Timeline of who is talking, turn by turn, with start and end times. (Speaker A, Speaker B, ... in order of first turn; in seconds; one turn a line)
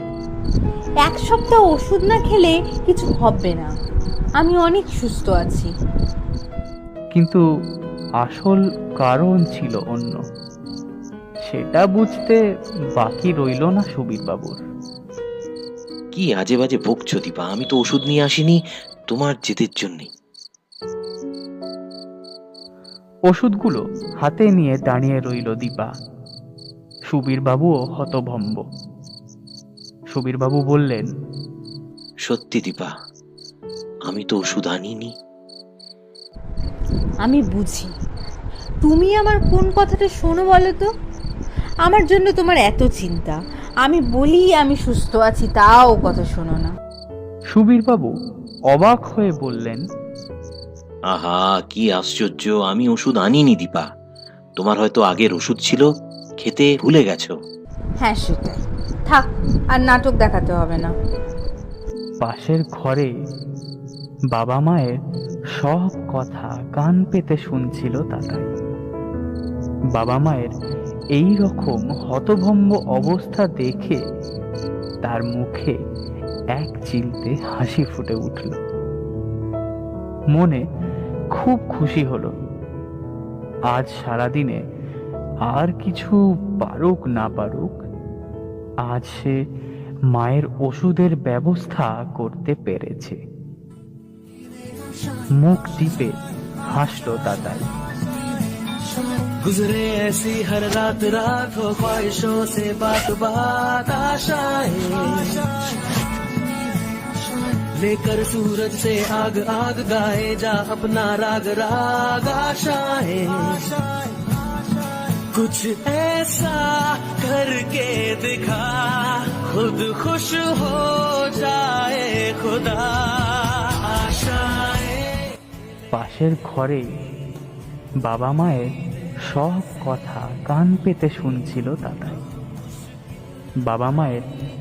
Speaker A: 1.0-3.7
Speaker A: 4.4-5.7
Speaker B: 7.1-7.4
Speaker B: 8.2-10.2
Speaker B: 11.4-12.4
Speaker B: 13.0-14.6
Speaker C: 16.1-18.6
Speaker C: 19.1-20.1
Speaker B: 23.3-25.9
Speaker B: 27.1-28.6
Speaker B: 30.1-31.1
Speaker C: 32.3-32.9
Speaker C: 34.1-35.1
Speaker A: 37.2-37.9
Speaker A: 38.8-40.9
Speaker A: 41.8-46.7
Speaker B: 47.5-48.1
Speaker B: 48.7-49.8
Speaker C: 51.1-53.9
Speaker C: 54.6-55.8
Speaker C: 56.4-57.3
Speaker A: 58.0-60.9
Speaker B: 62.2-63.1
Speaker B: 64.3-65.0
Speaker B: 65.6-68.5
Speaker B: 70.0-70.5
Speaker B: 71.2-74.0
Speaker B: 75.0-75.7
Speaker B: 76.6-78.6
Speaker B: 80.3-80.6
Speaker B: 81.3-82.3
Speaker B: 83.7-84.6
Speaker B: 85.5-87.8
Speaker B: 88.8-89.4
Speaker B: 90.1-93.2
Speaker B: 95.4-96.1
Speaker B: 96.7-97.6
Speaker D: 99.4-105.5
Speaker D: 107.6-113.8
Speaker D: 115.1-125.2
Speaker B: 125.9-126.8
Speaker B: 128.1-128.7
Speaker B: 129.3-132.2
Speaker B: 133.7-134.2